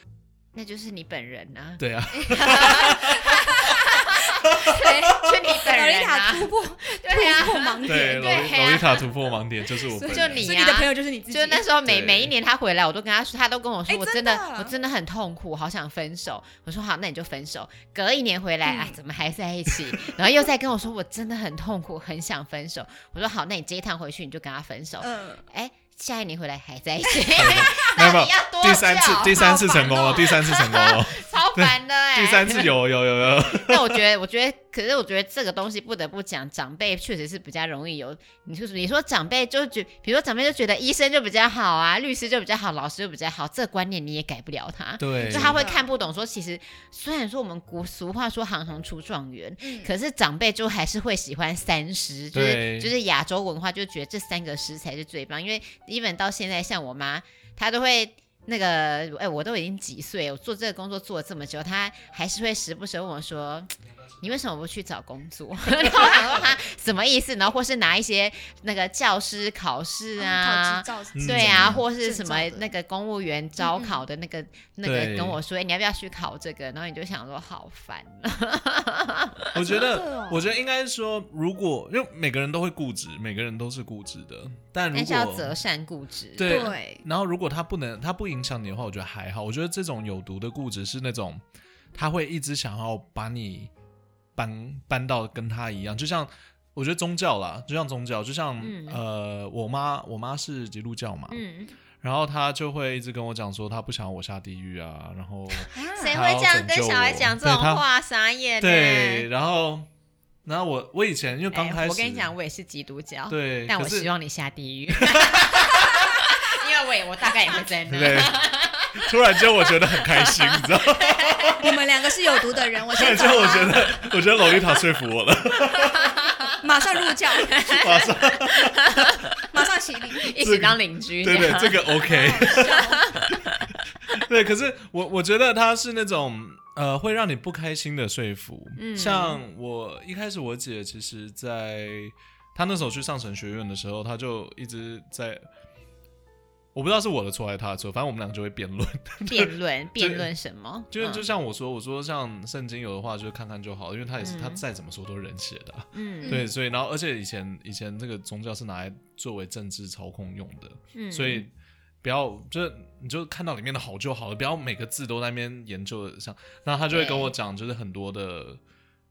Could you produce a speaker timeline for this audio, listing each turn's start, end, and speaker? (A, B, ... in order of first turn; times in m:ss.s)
0:00.5-0:09.0 A
0:01.8-0:03.7 B
0:02.5-0:03.8 C
0:04.4-0:04.9 B
0:05.5-0:08.6 C
0:07.8-0:10.5 B
0:09.8-0:11.6 C
0:10.1-0:32.7 A
0:11.8-0:12.3 B
0:13.9-0:14.7 C
0:18.6-0:19.0 C
0:25.0-0:25.4 C
0:27.3-0:34.0 B
0:33.4-1:19.5 A
0:45.0-0:45.6 B
0:45.2-0:45.9 C
0:49.6-0:49.9 C
0:52.3-0:52.9 B
1:05.7-1:06.5 C
1:10.2-1:12.7 C
1:11.1-1:11.8 B
1:13.6-1:14.0 C
1:14.8-1:15.4 B
1:19.5-1:25.5 B
1:19.7-1:20.4 C
1:24.9-1:26.7 A
1:26.4-1:31.4 B
1:26.4-1:27.0 C
1:31.9-1:33.7 B
1:34.4-1:41.4 B
1:38.6-1:39.0 A
1:41.3-1:41.7 A
1:42.0-1:47.8 B
1:45.5-1:49.2 A
1:45.7-1:46.1 C
1:48.6-1:49.9 B
1:50.4-1:52.3 B
1:51.5-2:01.5 A
1:53.3-1:54.1 B
1:55.0-1:56.1 B
1:57.9-2:01.8 B
2:01.6-2:03.9 C
2:02.9-2:06.2 B
2:05.7-2:06.6 A
2:06.6-2:07.6 C
2:07.4-2:09.5 A
2:07.5-2:09.3 B
2:09.5-2:10.3 C
2:10.2-2:13.7 A
2:10.4-2:13.3 B
2:12.0-2:13.2 C
2:14.1-2:25.4 B
2:18.8-2:19.4 A
2:26.7-2:30.3 B
2:29.3-2:31.3 A
2:30.9-2:41.5 B
2:34.2-2:34.6 A
2:35.9-2:36.4 A
2:36.2-2:36.5 C
2:40.9-2:41.4 A
2:42.0-2:48.6 B
2:46.9-2:47.3 A